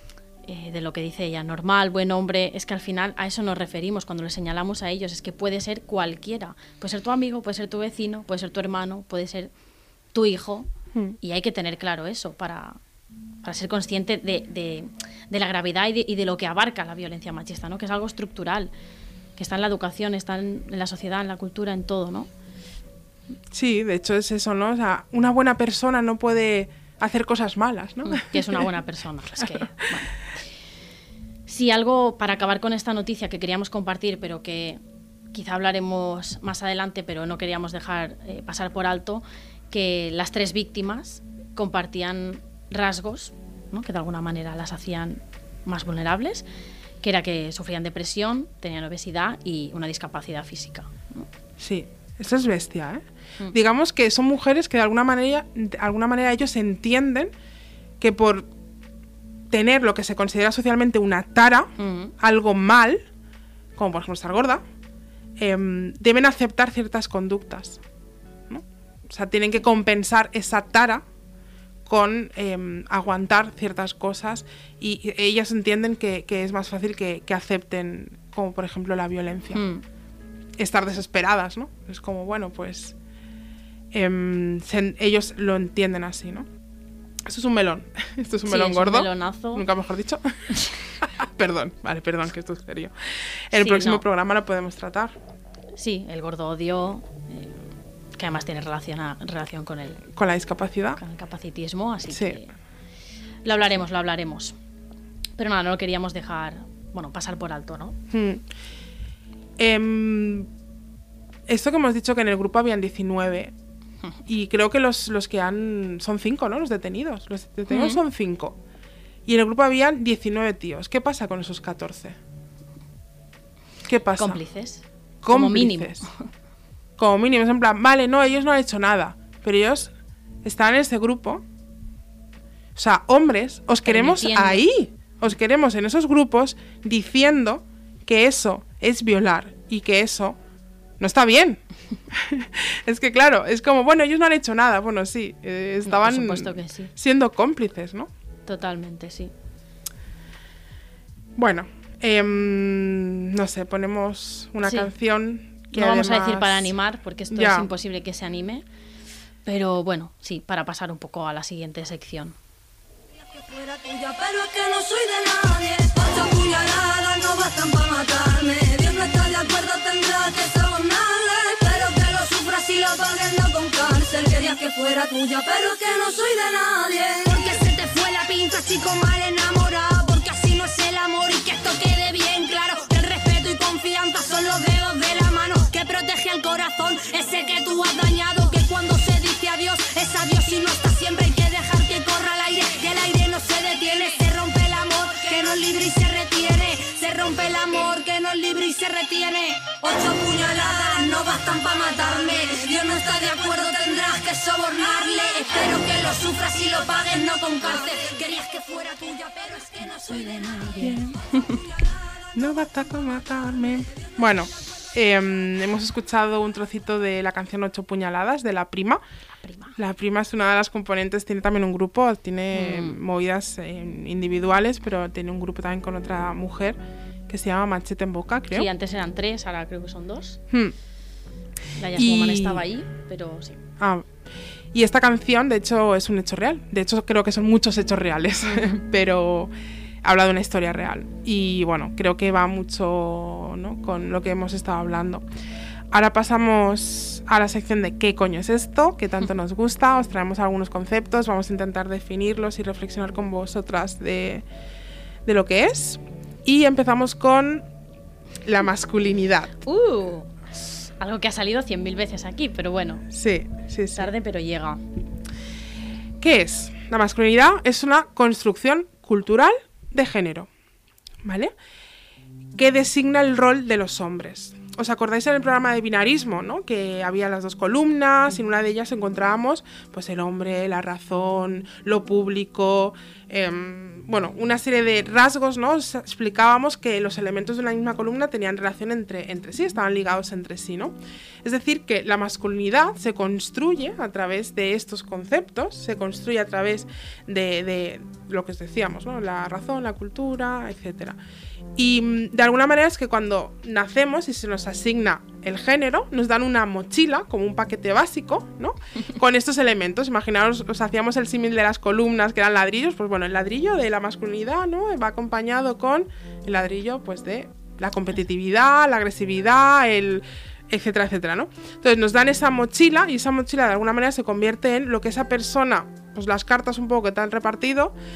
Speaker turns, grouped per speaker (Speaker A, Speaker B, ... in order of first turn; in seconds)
Speaker A: 0.5-9.5, 10.1-10.7, 11.2-12.8, 13.4-18.7, 19.4-22.3, 28.0-30.1, 31.5-34.8, 35.3-46.5, 47.0-51.3, 61.8-62.1, 79.5-79.8, 88.5-89.7, 93.5-94.0, 95.8-97.6, 98.2-100.0, 101.0-102.5, 103.4-104.6, 105.4-108.0, 117.7-118.0, 124.2-126.2, 133.8-134.7, 145.8-146.9, 148.5-149.3, 154.7-154.9, 155.7-158.7, 159.4-162.4, 210.6-211.0, 219.4-219.8, 222.5-223.0, 228.5-230.4, 231.8-233.6, 238.4-238.8, 259.6-263.1, 263.9-264.8
Speaker B: 23.5-28.7, 29.4-29.8, 51.6-57.3, 58.0-58.5, 59.5-63.1, 63.8-64.6, 65.4-67.8, 68.5-71.0, 71.9-79.6, 80.6-83.0, 83.9-86.5, 87.3-90.5, 91.0-95.2, 100.1-101.0, 102.1-102.4, 108.1-108.5, 109.6-110.5, 111.5-113.5, 114.3-118.6, 119.3-122.2, 123.9-124.4, 125.2-126.1, 127.0-129.9, 130.4-131.4, 132.8-140.4, 141.0-148.1, 151.4-156.7, 157.3-157.7, 210.8-211.2, 212.3-219.0, 219.8-228.7, 231.9-232.7, 233.8-234.1, 234.7-239.5, 240.0-245.2, 245.9-254.5, 255.2-257.7, 258.4-259.5, 263.1-264.1, 266.2-270.5, 271.2-271.5, 272.6-301.2, 301.8-327.9
Speaker C: 163.3-210.9